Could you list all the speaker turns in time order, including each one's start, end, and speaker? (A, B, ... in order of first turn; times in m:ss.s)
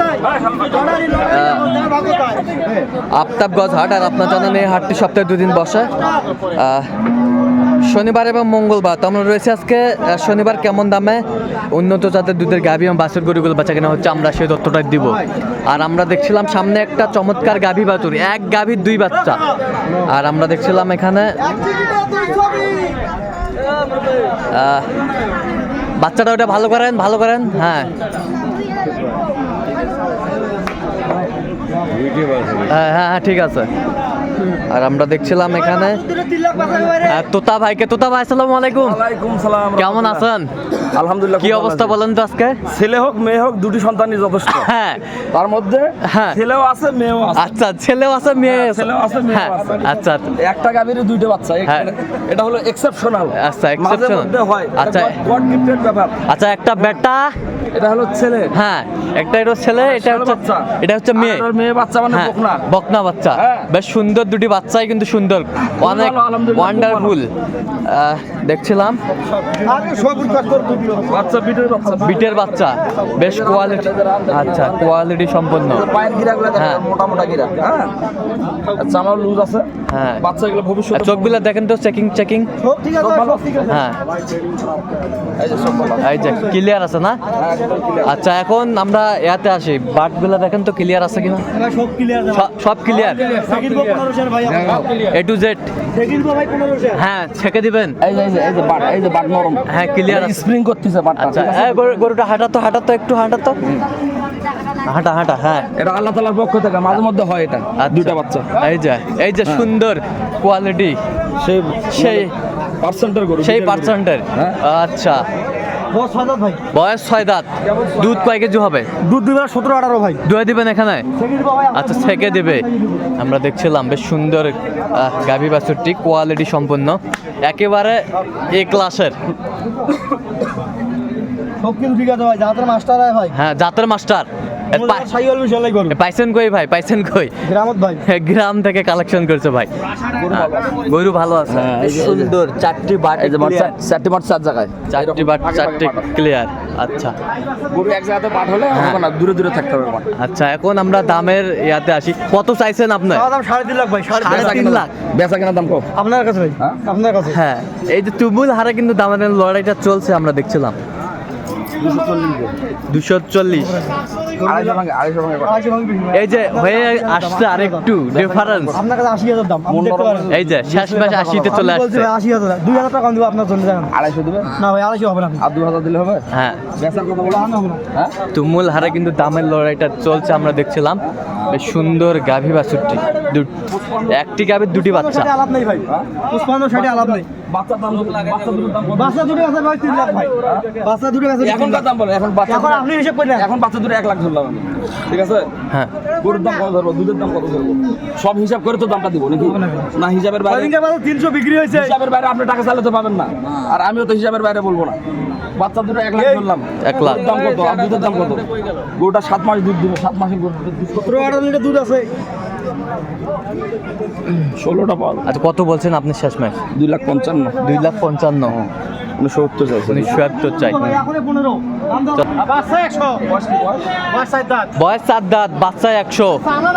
0:00.3-0:01.1 A
0:01.2-0:01.8 B
0:01.7-0:02.5 C
0:03.1-0:05.9 B
0:06.5-0:06.9 B
0:07.8-0:19.4 B
0:20.0-0:21.4 B
0:24.5-0:24.9 B
0:26.0-0:27.9 B
0:32.6-0:33.7 B
0:34.7-0:36.0 B
0:36.1-0:37.1 C
0:36.9-0:39.0 B
0:38.7-0:40.3 A
0:39.8-0:40.5 B
0:40.8-0:42.0 A
0:41.4-0:42.6 B
0:42.7-0:44.7 A
0:44.5-0:45.0 B
0:45.3-0:47.5 A
0:46.0-0:46.4 B
0:47.3-0:50.3 B
0:48.4-0:56.2 A
0:53.3-0:55.2 B
0:56.3-0:57.3 B
0:57.7-0:58.6 A
0:58.5-1:01.5 B
0:59.7-1:02.7 A
1:02.1-1:07.3 B
1:03.3-1:03.7 A
1:05.8-1:07.2 A
1:07.8-1:09.0 B
1:09.5-1:11.1 C
1:11.0-1:12.2 A
1:12.0-1:15.9 B
1:13.1-1:15.0 A
1:15.7-1:18.0 A
1:16.6-1:16.8 B
1:18.6-1:21.4 A
1:19.9-1:20.3 B
1:20.9-1:22.5 B
1:22.6-1:23.7 C
1:23.0-1:23.8 A
1:23.7-1:24.0 B
1:25.4-1:26.3 A
1:26.0-1:27.2 B
1:27.3-1:28.2 A
1:28.0-1:31.4 B
1:31.5-1:35.0 C
1:32.3-1:33.3 B
1:35.0-1:35.7 B
1:35.9-1:37.0 C
1:36.9-1:38.0 B
1:38.0-1:42.0 A
1:39.7-1:40.5 B
1:41.2-1:43.6 B
1:44.8-1:45.7 B
1:45.8-1:48.5 A
1:47.8-1:51.0 B
1:49.4-1:49.7 A
1:51.4-1:54.6 A
1:51.9-1:52.3 B
1:53.4-1:55.2 B
1:55.9-1:56.6 C
1:56.7-1:58.9 B
1:57.6-1:58.3 A
1:59.0-2:00.2 C
2:00.2-2:01.0 B
2:01.2-2:03.1 C
2:01.7-2:09.2 B
2:11.6-2:13.3 C
2:13.3-2:15.1 B
2:14.7-2:15.9 C
2:15.9-2:17.3 B
2:17.4-2:18.0 C
2:18.0-2:19.7 B
2:20.1-2:20.9 A
2:20.3-2:23.7 B
2:21.5-2:22.4 A
2:23.2-2:26.2 A
2:24.9-2:27.1 B
2:27.7-2:30.1 A
2:28.7-2:29.0 B
2:30.2-2:33.3 B
2:33.1-2:34.8 C
2:34.1-2:34.9 B
2:34.2-2:35.9 A
2:36.0-2:37.4 C
2:37.3-2:40.8 B
2:41.8-2:42.6 A
2:42.9-2:43.8 B
2:44.4-2:45.6 A
2:45.4-2:47.9 C
2:46.1-2:48.8 B
2:48.1-2:48.8 A
2:48.7-2:50.3 C
2:49.7-2:51.6 A
2:50.3-2:52.1 B
2:51.5-2:53.9 C
2:53.9-2:54.6 A
2:54.6-2:55.4 C
2:55.4-2:58.2 A
2:56.3-2:56.6 B
2:57.3-2:57.8 C
2:58.3-3:03.5 B
3:01.2-3:01.5 A
3:03.7-3:04.2 A
3:04.1-3:05.3 B
3:04.8-3:07.2 C
3:05.8-3:09.5 A
3:08.9-3:11.8 C
3:10.4-3:10.8 A
3:11.4-3:15.5 A
3:12.5-3:13.5 C
3:16.2-3:20.7 A
3:19.4-3:19.9 C
3:20.4-3:22.0 C
3:21.7-3:25.0 A
3:25.6-3:31.4 A
3:26.8-3:27.2 B
3:31.0-3:32.1 C
3:34.3-3:35.3 A
3:35.2-3:36.6 B
3:36.7-3:37.6 A
3:37.6-3:38.6 B
3:38.4-3:40.2 A
3:39.9-3:40.9 B
3:40.6-3:43.3 C
3:43.2-3:44.0 A
3:44.1-3:44.7 C
3:44.7-3:46.4 B